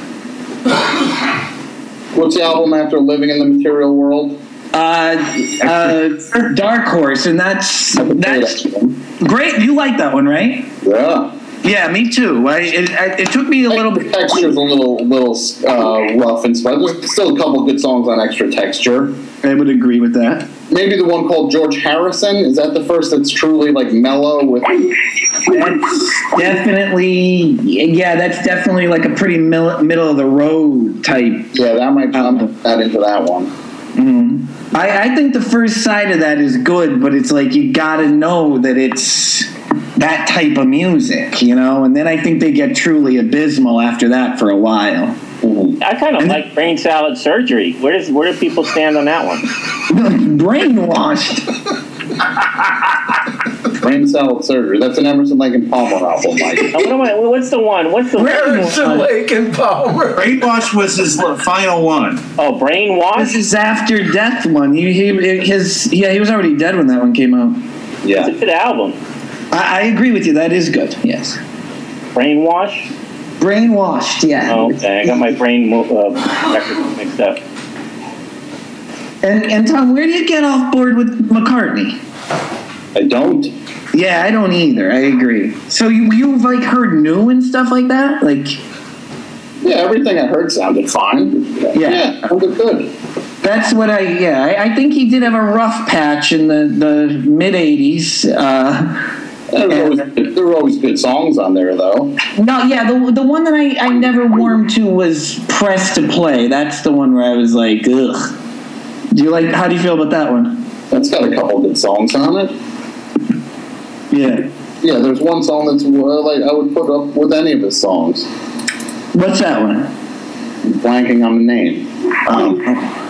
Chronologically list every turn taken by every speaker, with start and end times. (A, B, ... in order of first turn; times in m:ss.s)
0:02.1-0:04.4 A
0:04.7-0:08.6 B
0:08.0-0:09.0 A
0:09.1-0:10.7 B
0:10.8-0:11.3 A
0:11.6-0:14.1 B
0:13.7-0:19.2 A
0:19.4-0:20.5 B
0:20.7-0:25.0 A
0:25.5-0:31.5 B
0:31.5-0:33.5 A
0:32.2-0:32.4 B
0:34.0-0:45.2 B
0:45.4-0:45.8 A
0:45.8-0:49.4 C
0:49.9-0:51.5 B
0:53.8-0:56.9 A
0:56.7-0:58.4 C
0:58.2-1:00.3 D
0:58.2-0:59.1 B
1:00.1-1:02.2 E
1:02.4-1:03.4 C
1:03.1-1:07.7 B
1:08.0-1:08.3 A
1:08.1-1:09.0 C
1:09.5-1:11.4 B
1:12.1-1:12.9 C
1:13.4-1:14.7 B
1:14.5-1:17.4 C
1:19.2-1:22.0 B
1:22.9-1:23.5 A
1:23.9-1:28.6 B
1:29.6-1:32.9 A
1:31.7-1:32.2 B
1:33.4-1:39.1 B
1:39.5-1:42.1 A
1:42.4-1:48.3 B
1:49.1-1:50.6 B
1:50.9-1:52.5 A
1:54.1-1:54.5 B
1:54.8-1:58.3 A
1:59.1-1:59.9 B
2:00.6-2:02.8 A